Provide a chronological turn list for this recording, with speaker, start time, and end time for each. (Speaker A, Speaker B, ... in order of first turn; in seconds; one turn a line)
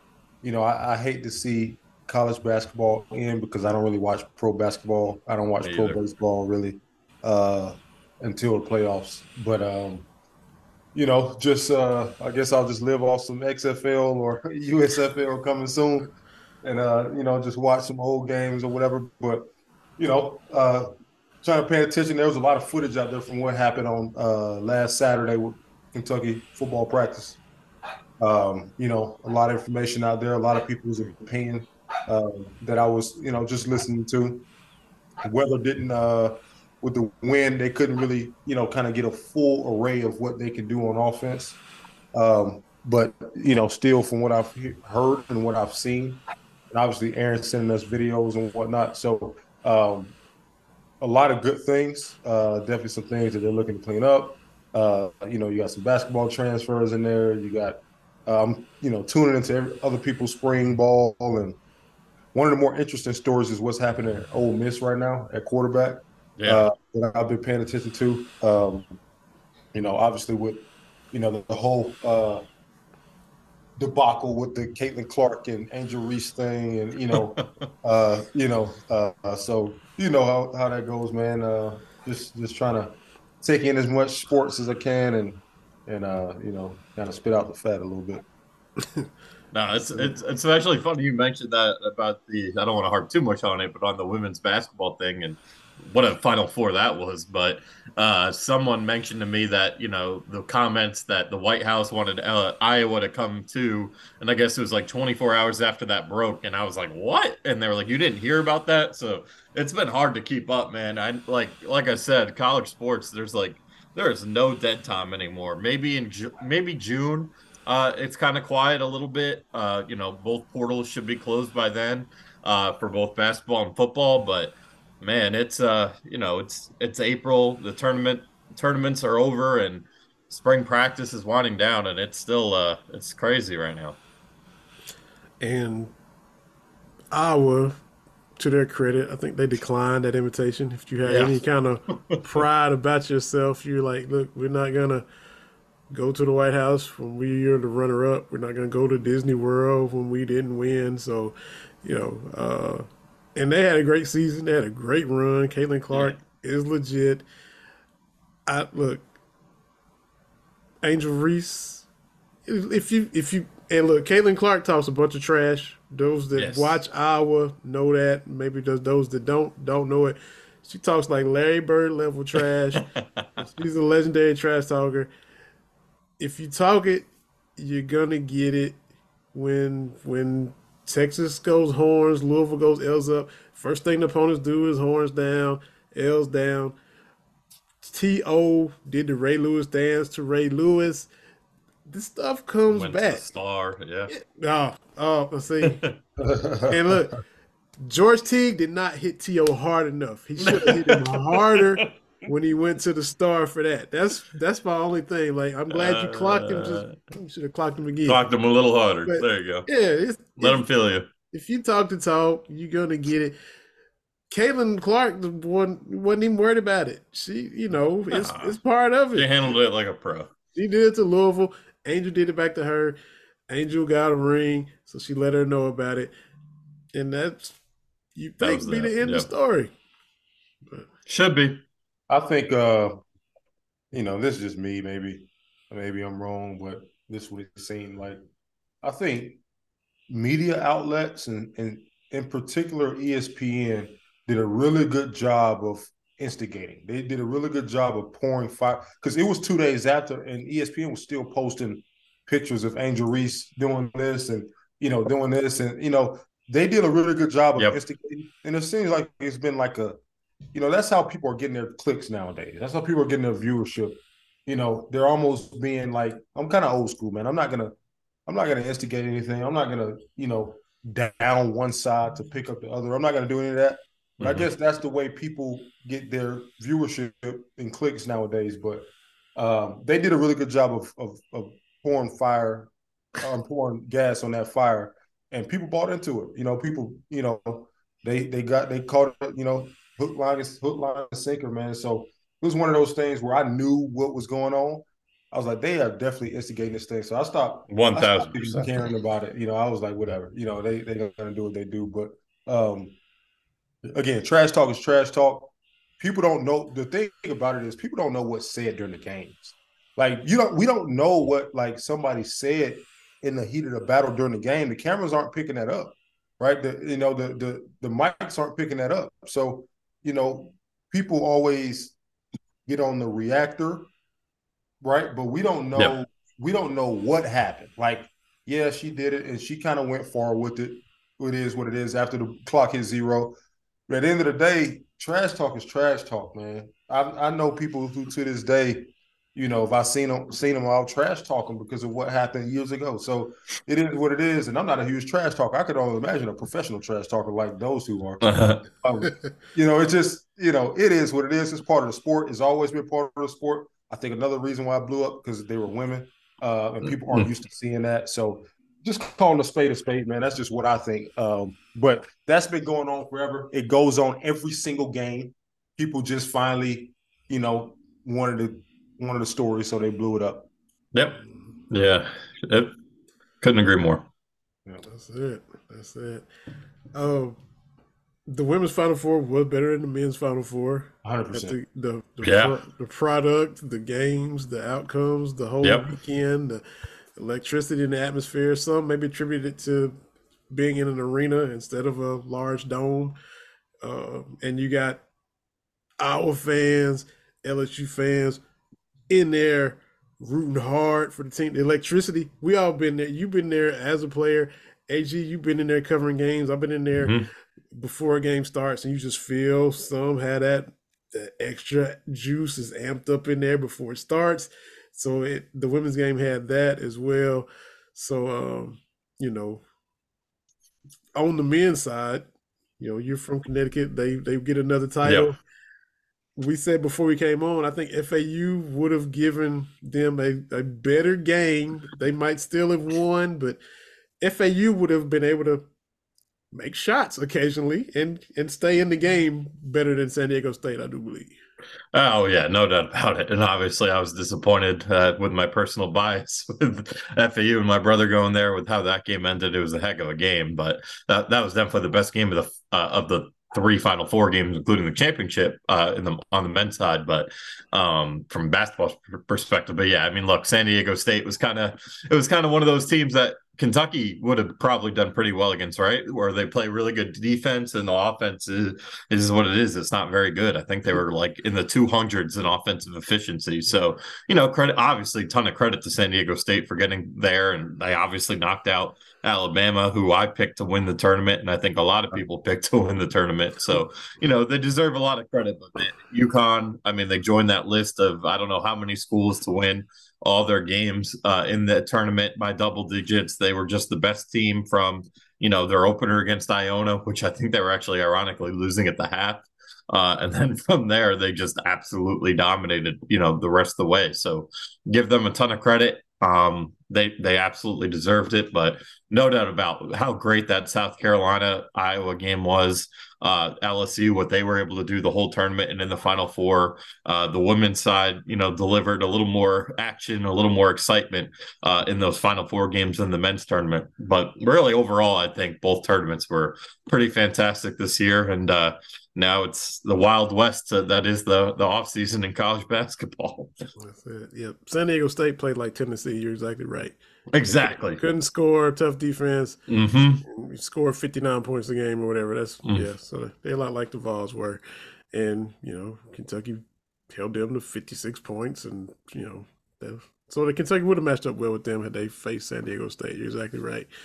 Speaker A: 0.4-10.1
Speaker B: 5.6-6.0
Speaker A: 10.9-16.1
Speaker A: 16.6-19.5
Speaker A: 20.0-20.9
Speaker A: 21.4-27.4
Speaker A: 28.2-34.5
Speaker A: 35.2-41.6
Speaker A: 42.1-46.2
Speaker A: 46.7-50.1
Speaker A: 51.0-61.6
Speaker A: 62.3-69.0
Speaker B: 66.4-66.7
Speaker A: 69.7-72.4
Speaker A: 73.8-88.2
Speaker B: 77.1-77.5
Speaker B: 89.5-134.0
Speaker C: 135.4-135.9
Speaker C: 137.1-137.8
Speaker C: 138.4-145.1
Speaker B: 141.1-141.4
Speaker B: 141.9-142.4
Speaker C: 145.9-157.2
Speaker B: 155.9-156.2
Speaker C: 158.5-159.0
Speaker C: 160.8-161.9
Speaker C: 162.5-172.8
Speaker B: 166.4-166.8
Speaker B: 172.8-173.4
Speaker C: 173.4-175.1
Speaker C: 176.2-178.8
Speaker C: 179.3-186.8
Speaker C: 187.8-191.1
Speaker C: 191.9-193.2
Speaker B: 192.7-194.1
Speaker C: 194.1-195.8
Speaker B: 195.6-196.0
Speaker A: 196.2-196.9
Speaker C: 196.7-197.2
Speaker C: 197.8-208.2
Speaker B: 200.4-201.9
Speaker B: 205.7-206.9
Speaker B: 208.1-209.7
Speaker C: 209.1-210.6
Speaker B: 210.4-211.1
Speaker C: 211.3-213.4
Speaker C: 214.3-219.3
Speaker B: 218.1-218.6
Speaker B: 219.1-220.3
Speaker C: 220.6-223.0
Speaker C: 223.5-226.1
Speaker C: 226.9-227.6
Speaker C: 228.2-229.7
Speaker B: 228.4-229.3
Speaker B: 231.1-231.6
Speaker A: 232.1-233.0
Speaker A: 233.9-238.2
Speaker A: 238.8-239.4
Speaker A: 240.1-260.0
Speaker A: 260.5-267.7
Speaker A: 268.3-303.0
Speaker B: 274.2-274.5
Speaker B: 297.7-298.8
Speaker A: 303.9-322.0
Speaker A: 322.7-323.9
Speaker A: 324.8-333.4
Speaker A: 333.9-370.5
Speaker B: 348.2-348.6
Speaker B: 370.9-372.7
Speaker B: 373.4-374.1
Speaker C: 374.8-376.3
Speaker C: 376.9-377.4
Speaker C: 378.3-386.6
Speaker A: 381.0-381.6
Speaker B: 382.2-382.6
Speaker B: 385.6-385.9
Speaker C: 387.1-390.0
Speaker C: 390.5-393.1
Speaker C: 393.8-395.0
Speaker C: 396.0-398.4
Speaker C: 399.1-407.1
Speaker B: 407.0-407.3
Speaker C: 407.7-419.6
Speaker C: 421.2-425.4
Speaker B: 425.0-425.3
Speaker C: 426.4-433.6
Speaker C: 434.2-435.7
Speaker C: 436.5-441.4
Speaker B: 441.9-533.5
Speaker C: 533.8-539.6
Speaker B: 537.3-538.0
Speaker B: 539.7-540.2
Speaker C: 540.2-544.6
Speaker C: 545.1-553.9